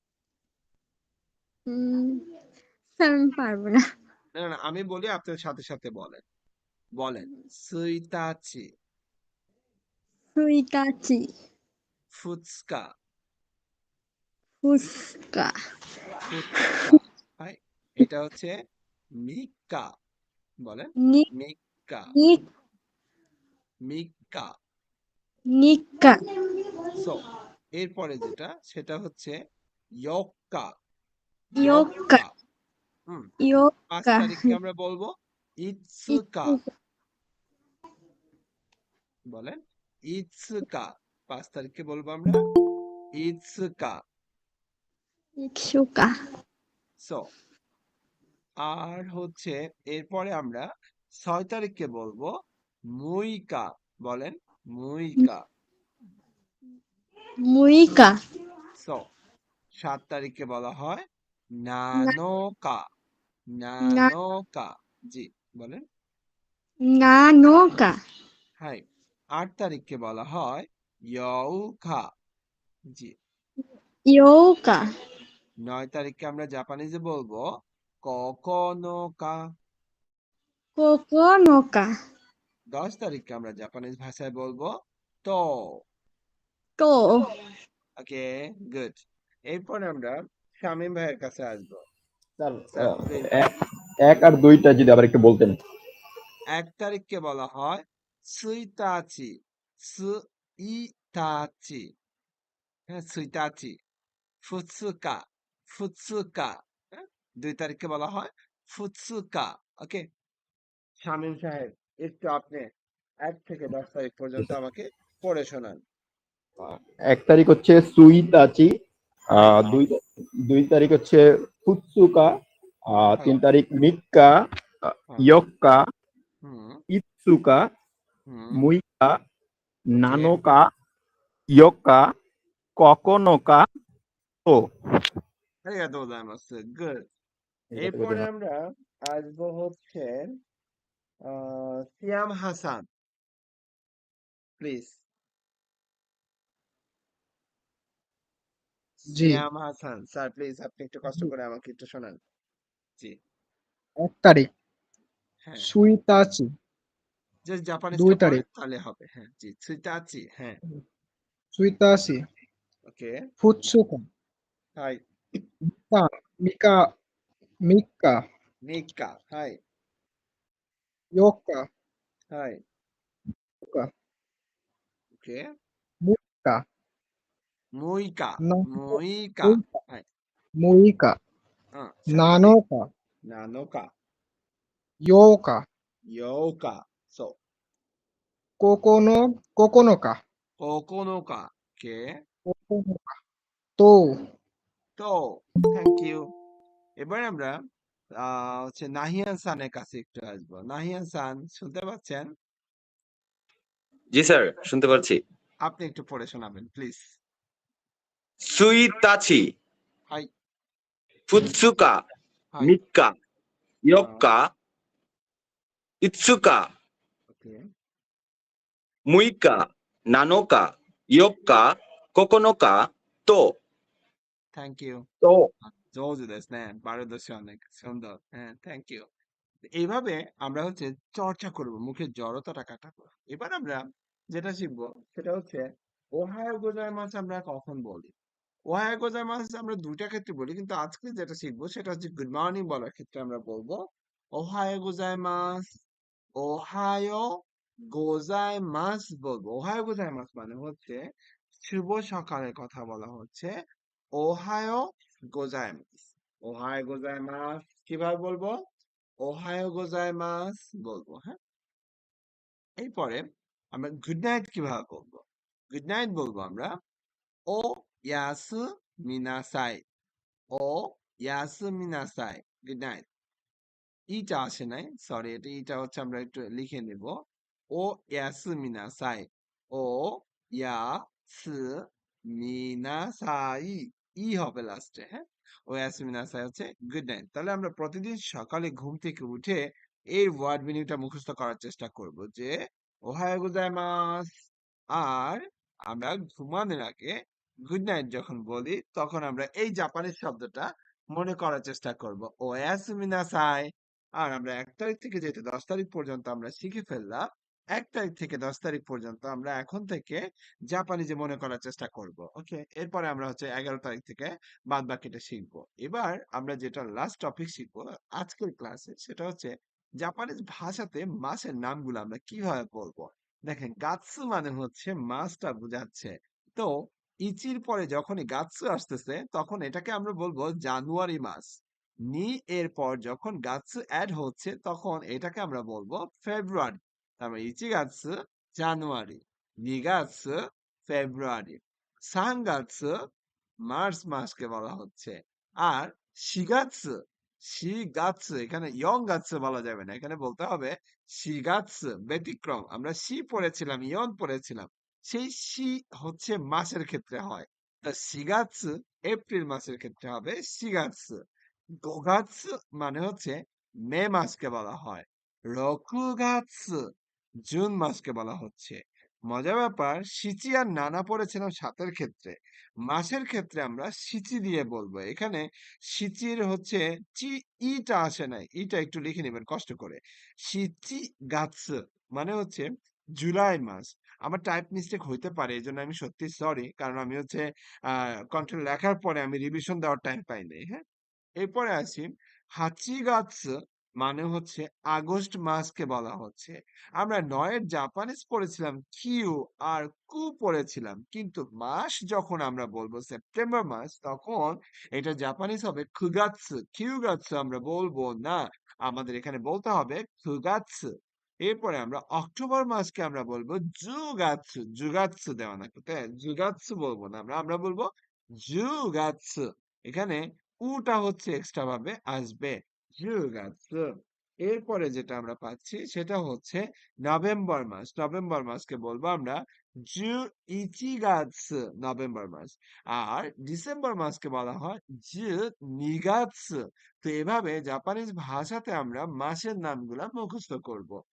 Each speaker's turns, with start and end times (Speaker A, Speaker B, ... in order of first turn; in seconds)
Speaker A: 1.7-2.2, 3.0-3.8, 10.4-11.3, 14.6-15.5, 21.0-21.3, 22.1-22.4, 25.5-26.6, 31.6-32.2, 33.4-34.5, 36.1-36.7, 45.4-46.1, 57.4-58.1, 63.9-64.1, 66.9-67.9, 74.1-74.8, 80.8-81.9, 86.8-87.3
Speaker B: 4.3-6.2, 7.0-8.7, 12.2-12.9, 16.3-18.6, 19.2-19.9, 20.6-22.1, 23.9-24.5, 27.8-29.4, 30.1-30.7, 31.6-32.3, 33.9-36.6, 39.3-42.4, 43.2-44.0, 47.0-47.3, 48.6-50.7, 51.2-52.3, 52.9-55.4, 59.8-61.1, 61.6-62.9, 63.6-65.8, 69.4-72.1, 75.7-77.5, 78.0-79.4, 82.7-84.7, 85.2-85.8, 88.0-91.8, 92.7-93.3, 96.5-99.3, 99.8-101.9, 102.9-103.8, 104.5-110.0, 111.0-112.7, 113.3-115.8, 119.4-119.9, 126.4-126.8, 128.3-128.7, 130.1-130.4, 135.6-137.0, 137.8-140.2, 141.3-142.9, 144.6-145.0, 149.0-152.2, 155.4-155.7, 157.4-160.6, 162.9-163.2, 168.6-169.6, 172.3-172.6, 175.1-175.4, 177.8-180.1, 181.8-182.6, 183.3-183.9, 186.1-187.4, 190.6-192.1, 195.0-196.3, 197.0-197.6, 198.2-202.3, 205.6-207.2, 212.5-212.8, 214.0-214.3, 217.3-217.6, 224.6-225.1, 225.9-229.1, 229.7-238.1, 238.7-243.8, 244.4-245.8, 246.4-247.3, 247.9-251.0, 251.6-253.5, 254.2-258.6, 259.2-261.4, 262.8-263.2, 263.7-266.7, 267.5-269.8, 270.5-273.1, 274.1-277.1, 277.8-289.6, 290.1-292.5, 293.1-297.1, 297.7-303.7, 304.2-307.2, 307.8-310.2, 310.7-326.7, 327.2-331.6, 332.1-342.9, 343.7-361.2, 361.8-363.4, 363.9-366.8, 367.4-372.3, 372.9-382.6, 383.2-390.8, 391.4-410.9, 411.4-417.9, 418.4-423.9, 424.4-441.0
Speaker C: 92.4-93.5, 94.0-95.5, 116.6-118.7, 119.3-122.3, 122.9-124.3, 125.2-125.8, 126.9-127.6, 128.5-129.2, 129.9-130.6, 131.5-132.0, 132.8-133.6, 137.7-138.3
Speaker D: 149.1-149.4, 154.0-154.5, 155.6-156.5, 157.9-158.4, 161.6-162.2, 163.4-164.1, 165.7-166.9, 167.7-168.2, 171.2-171.7, 173.6-173.9, 176.0-176.6, 178.4-179.7, 180.6-181.2, 182.1-182.9, 185.0-185.7, 188.6-190.2, 192.5-193.2, 193.8-194.1
Speaker E: 204.1-205.2, 208.4-209.5, 211.3-212.0, 212.6-213.1, 213.9-214.5, 216.0-216.7, 219.1-223.6